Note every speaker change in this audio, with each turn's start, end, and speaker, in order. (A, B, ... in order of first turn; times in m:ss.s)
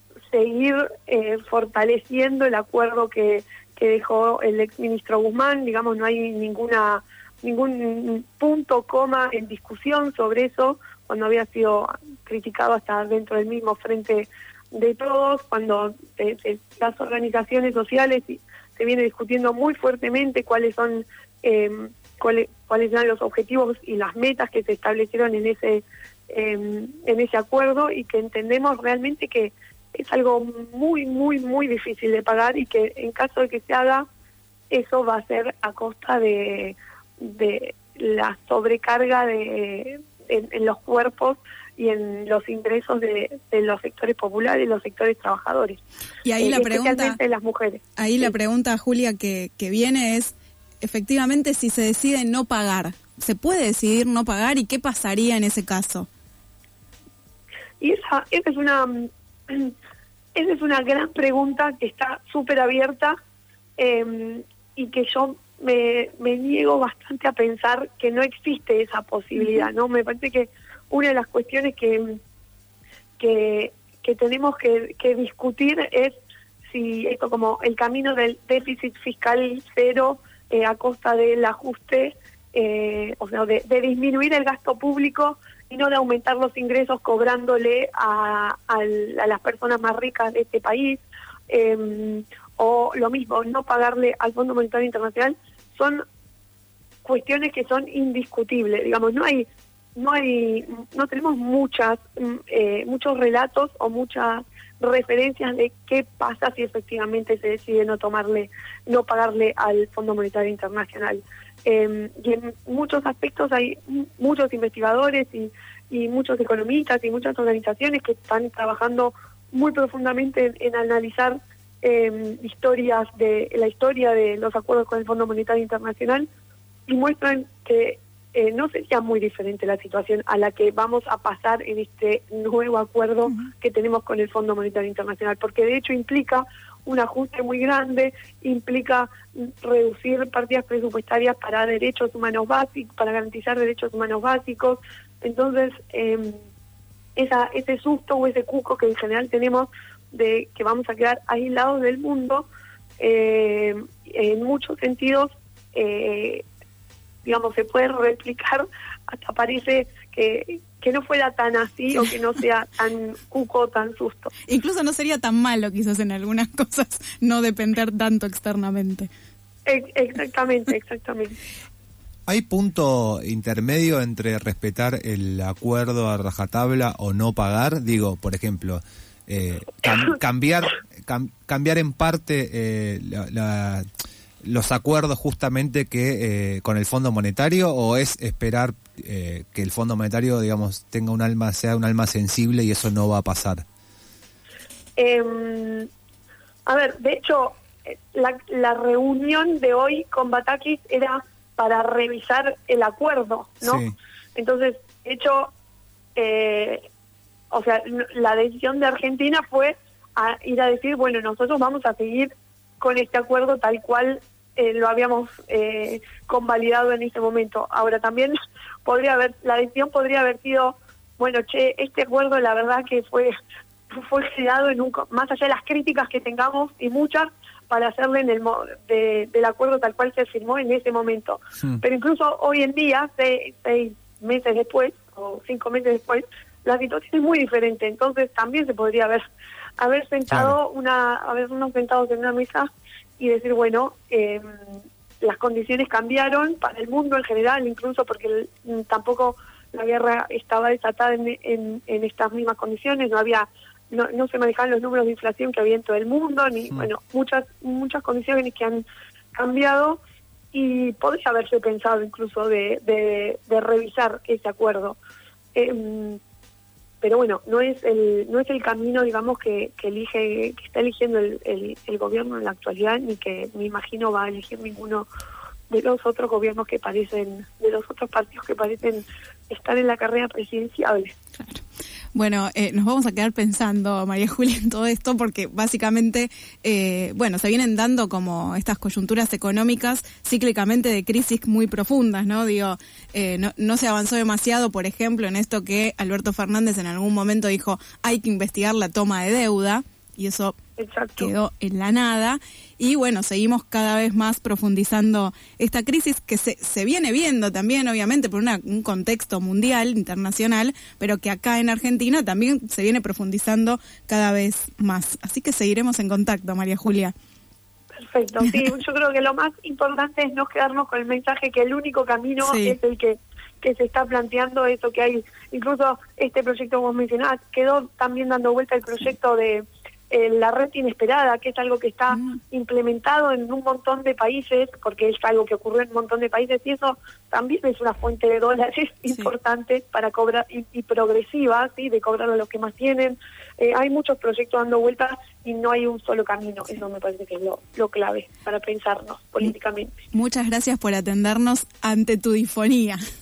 0:00.3-0:34.1 A
0:34.7-0:45.8 A
0:46.2-0:47.2 B
0:46.4-0:48.3 A
0:48.0-0:56.1 B
0:57.8-0:59.7 A
1:00.4-1:03.2 A
1:03.8-1:12.2 A
1:13.2-1:16.2 A
1:16.7-1:36.0 A
1:37.0-2:06.3 A
2:06.9-2:26.4 A
2:27.2-2:32.5 A
2:33.0-2:36.5 A
2:37.2-2:44.3 A
2:44.5-2:49.1 B
2:49.7-2:51.4 A
2:52.3-3:03.9 C
3:04.4-3:13.6 C
3:15.0-3:15.9 A
3:16.7-3:25.5 A
3:23.6-3:24.0 C
3:26.2-3:26.8 A
3:27.5-3:43.3 A
3:43.9-3:59.2 A
3:59.8-4:04.5 A
4:00.3-4:00.6 C
4:05.2-4:18.8 A
4:19.4-4:20.0 A
4:20.5-4:25.0 A
4:25.6-4:26.2 A
4:27.0-4:35.1 A
4:35.7-4:41.1 A
4:42.1-5:00.6 B
5:00.8-5:01.3 A
5:01.2-5:17.1 B
5:17.9-5:50.0 A
5:22.4-5:22.8 B
5:32.1-5:32.4 B
5:50.1-5:53.0 B